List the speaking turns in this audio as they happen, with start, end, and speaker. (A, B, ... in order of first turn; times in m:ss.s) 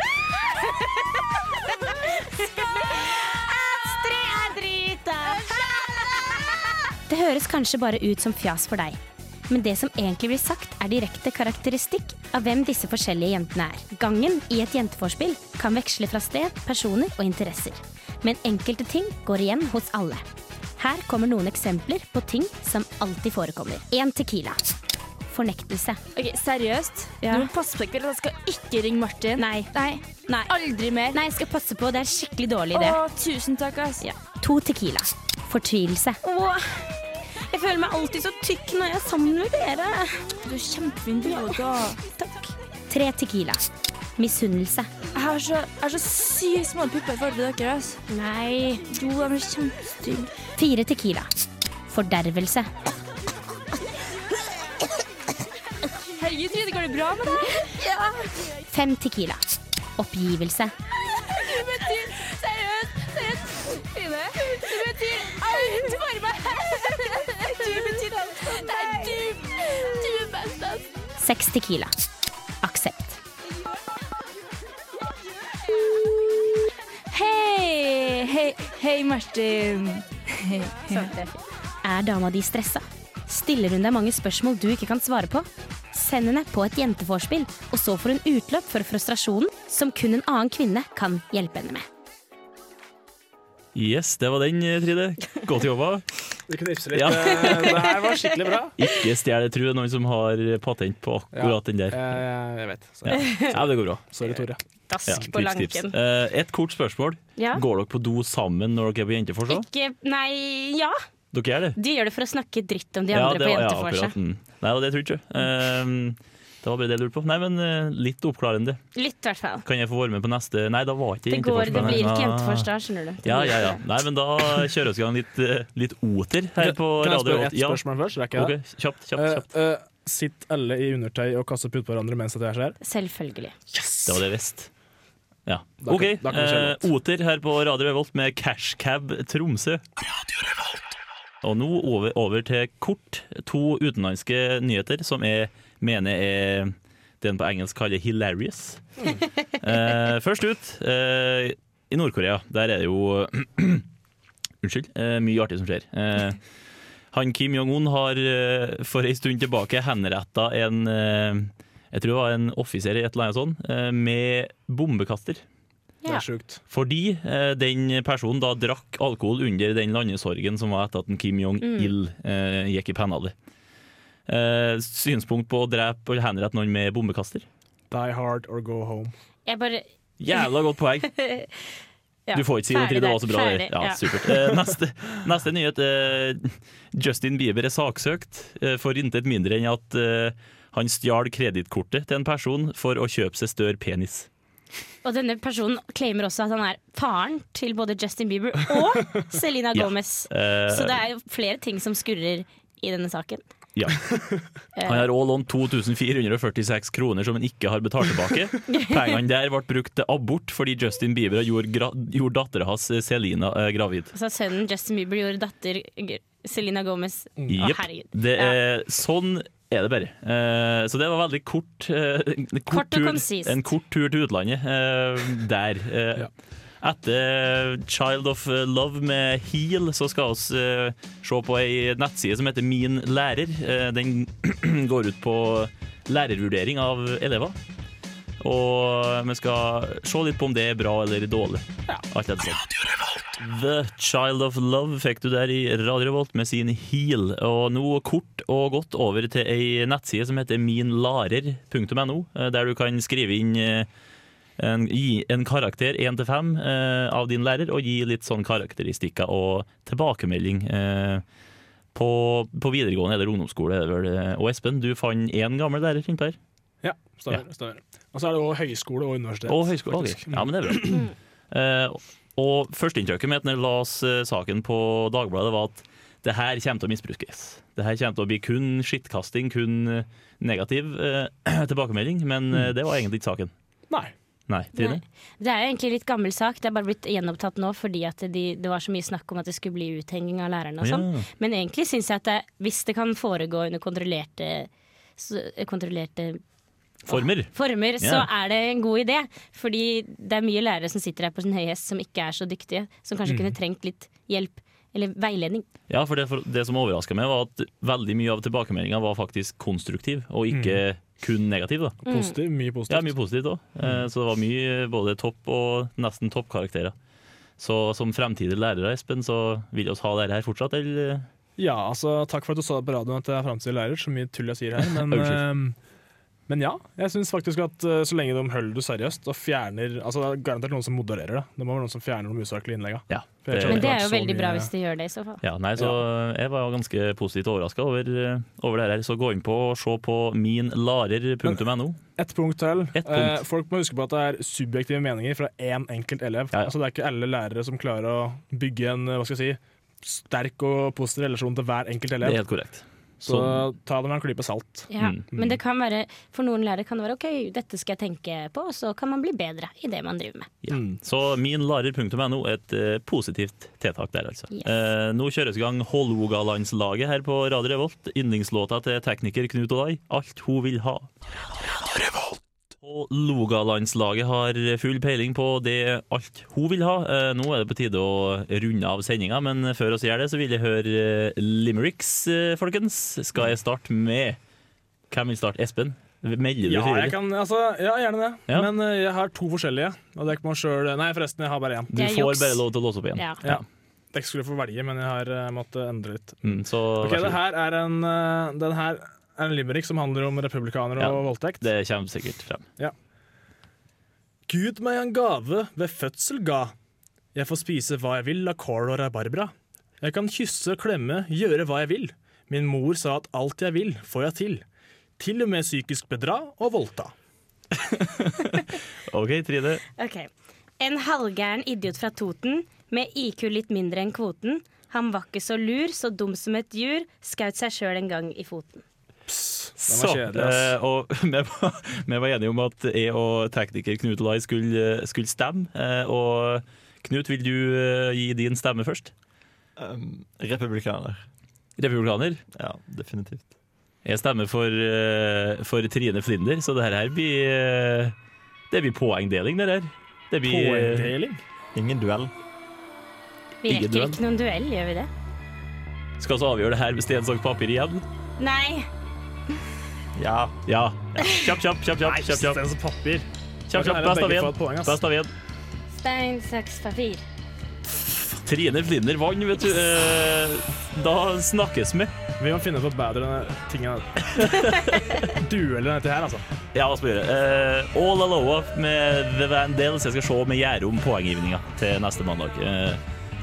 0:00.3-0:20.2 A
0:20.8-0:24.7 A
0:25.3-0:26.0 A
0:26.1-0:31.2 B
0:29.4-0:30.5 A
0:31.1-0:33.0 A
0:32.7-0:34.0 B
0:34.0-0:36.4 A
0:36.3-0:36.8 B
0:37.4-0:40.3 A
0:40.4-0:42.0 B
0:41.3-0:43.6 A
0:44.2-0:44.9 A
0:45.1-0:48.0 B
0:48.1-0:48.8 A
0:48.8-0:50.3 B
0:50.5-0:51.3 A
0:51.9-0:52.7 A
0:56.0-0:58.6 B
0:58.7-0:59.4 A
1:00.0-1:00.7 A
1:01.0-1:10.9 B
1:11.2-1:11.9 A
1:12.6-1:13.2 A
1:15.6-1:21.2 B
1:20.9-1:31.8 A
1:33.7-1:36.0 C
1:36.5-1:38.8 D
1:36.9-1:37.9 C
1:37.8-1:38.1 A
1:38.8-1:42.2 C
1:41.3-1:44.6 D
1:43.0-1:44.0 C
1:43.2-1:43.5 A
1:44.9-1:45.9 A
1:45.1-1:49.6 C
1:47.4-1:47.6 A
1:49.5-1:51.0 A
1:51.3-1:51.8 C
1:51.8-1:54.1 A
1:53.1-1:58.8 C
1:58.9-1:59.6 A
1:59.6-2:02.7 C
2:01.3-2:03.8 A
2:01.7-2:02.0 D
2:03.2-2:07.8 C
2:06.6-2:08.6 D
2:08.3-2:09.4 C
2:09.1-2:12.8 D
2:12.8-2:13.6 A
2:13.7-2:14.2 D
2:14.0-2:14.7 C
2:15.5-2:19.8 C
2:15.8-2:16.9 D
2:21.4-2:29.0 C
2:29.6-2:33.8 C
2:34.6-2:36.4 C
2:37.1-2:45.4 C
2:46.0-2:46.6 D
2:46.7-2:53.3 C
2:51.6-2:51.9 A
2:54.3-2:57.4 C
2:57.9-2:59.1 D
2:59.4-3:00.4 A
3:00.2-3:01.1 C
3:01.0-3:01.5 A
3:02.3-3:04.4 A
3:02.3-3:14.3 C
3:15.0-3:23.4 A
3:19.7-3:21.0 C
3:23.8-3:24.1 C
3:24.8-3:25.1 A
3:24.8-3:34.1 C
3:28.7-3:29.1 A
3:34.1-3:38.6 A
3:37.5-3:46.3 C
3:42.7-3:43.6 A
3:46.8-3:57.6 C
3:58.4-4:02.7 C
4:03.3-4:13.9 C
4:14.6-4:21.2 C
4:21.9-4:26.4 C
4:26.8-4:31.0 D
4:29.5-4:43.5 C
4:44.5-4:45.0 C
4:44.7-4:56.4 A
4:50.8-4:51.2 C
4:57.0-5:05.6 A
4:57.1-4:58.3 C
5:03.3-5:03.5 D
5:05.9-5:12.0 C
5:10.5-5:10.8 D
5:12.0-5:13.1 D
5:12.0-5:12.3 A
5:12.9-5:16.9 C
5:17.6-5:21.2 C
5:21.6-5:25.8 D
5:25.0-5:25.4 C
5:26.5-5:34.7 D
5:33.1-5:34.0 C
5:33.7-5:35.4 A
5:35.4-5:42.0 C
5:42.2-5:52.4 D
5:42.9-5:43.4 C
5:52.2-5:53.6 C
5:53.2-5:55.6 D
5:54.9-6:00.5 A
6:00.6-6:11.1 C
6:00.7-6:01.0 D
6:12.8-6:24.4 C
6:25.1-6:27.2 C
6:26.6-6:31.9 D
6:31.9-6:33.6 C
6:31.9-6:32.6 A
6:33.4-6:41.7 D
6:36.4-6:37.4 C
6:41.0-6:42.6 C
6:44.5-6:46.7 D
6:47.3-6:54.6 D
6:55.2-6:57.1 D
6:57.8-6:59.8 C
7:00.0-7:08.8 A
7:09.3-7:10.8 D
7:09.8-7:19.1 C
7:19.8-7:21.3 E
7:21.8-7:22.4 C
7:22.5-7:23.5 E
7:24.0-7:28.1 C
7:28.7-7:31.1 C
7:30.4-7:31.4 D
7:31.7-7:32.3 E
7:33.6-7:35.1 A
7:33.7-7:34.2 C
7:36.2-7:38.0 C
7:38.4-7:38.9 A
7:40.1-7:40.6 E
7:40.7-7:42.6 C
7:42.0-7:45.0 D
7:43.7-7:45.3 C
7:45.9-7:47.2 A
7:48.4-7:52.1 C
7:52.4-7:54.5 D
7:54.4-7:55.2 C
7:55.3-7:56.4 D
7:56.7-8:03.0 C